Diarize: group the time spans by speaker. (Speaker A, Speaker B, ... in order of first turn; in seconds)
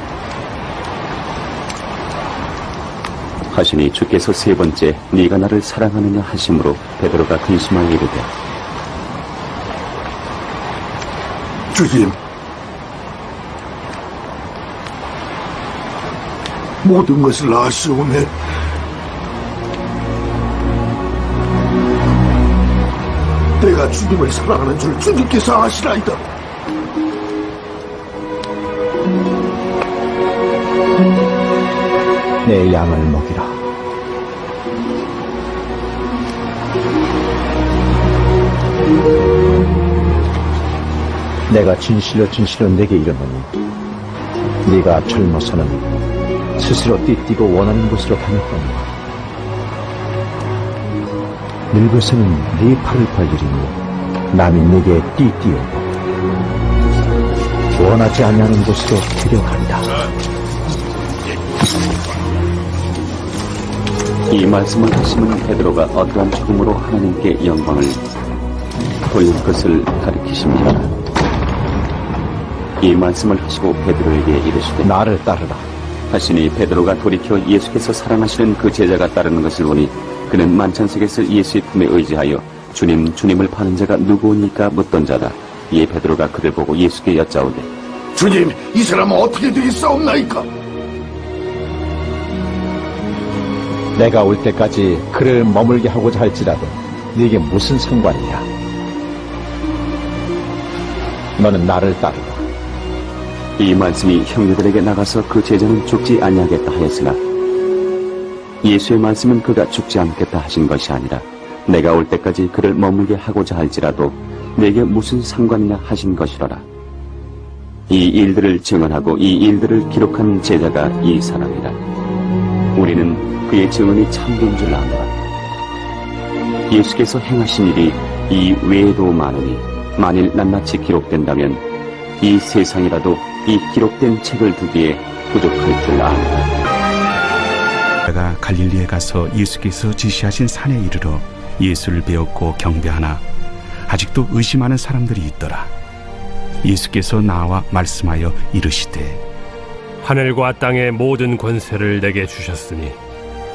Speaker A: 3.5-8.3, 64.3-68.0, 69.1-70.9, 72.8-74.9, 76.1-87.7, 103.6-107.2, 108.6-116.7, 117.9-121.8, 122.8-125.1, 126.7-131.6, 132.2-136.5
Speaker B: 11.7-12.2, 16.8-18.3, 23.6-26.2, 88.2-90.5
Speaker C: 32.4-33.6, 41.5-43.5, 44.7-45.9, 46.6-48.9, 51.7-53.8, 54.3-55.9, 57.8-60.0, 74.8-75.7, 94.0-98.5, 101.4-102.4
Speaker D: 138.1-143.2, 143.9-145.7, 146.6-149.2
Speaker E: 150.0-153.0